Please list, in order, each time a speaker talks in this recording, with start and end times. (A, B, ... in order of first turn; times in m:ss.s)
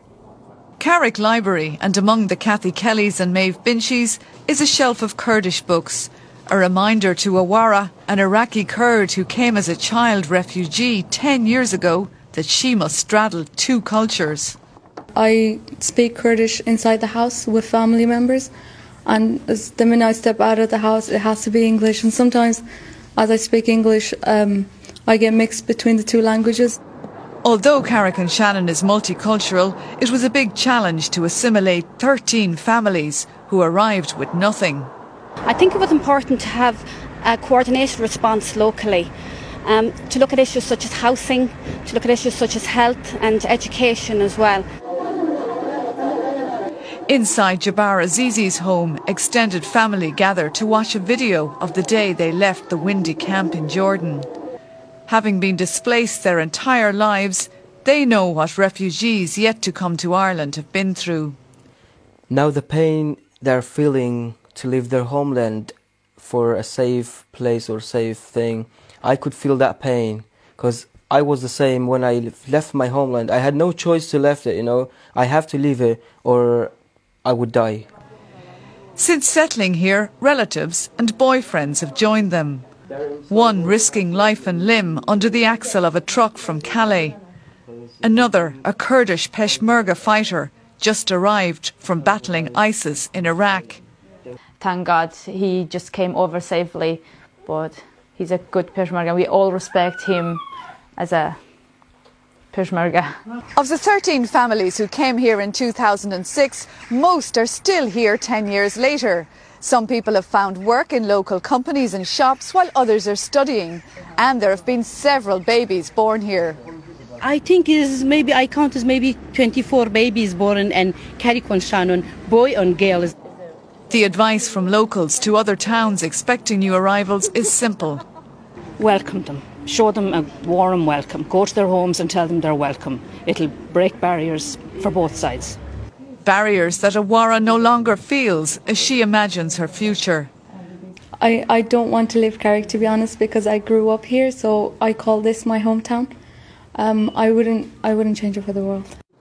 0:00.8-0:14.6 A
0:15.2-0:18.5 B
0:19.1-0:22.6 B
0:23.2-0:26.8 B
0:27.4-0:34.9 A
0:35.5-0:39.1 C
0:39.7-0:44.6 C
0:47.1-0:54.3 A
0:55.1-1:01.4 A
1:02.3-1:16.7 D
1:17.2-1:17.9 D
1:19.0-1:22.7 A
1:23.3-1:27.2 A
1:28.0-1:33.8 A
1:34.6-1:40.4 E
1:41.0-1:41.5 E
1:42.5-1:43.2 E
1:43.6-1:56.6 A
1:57.2-2:03.1 F
2:03.9-2:08.0 A
2:08.8-2:15.6 F
2:16.2-2:20.3 A
2:21.2-2:26.1 B
2:26.8-2:28.9 B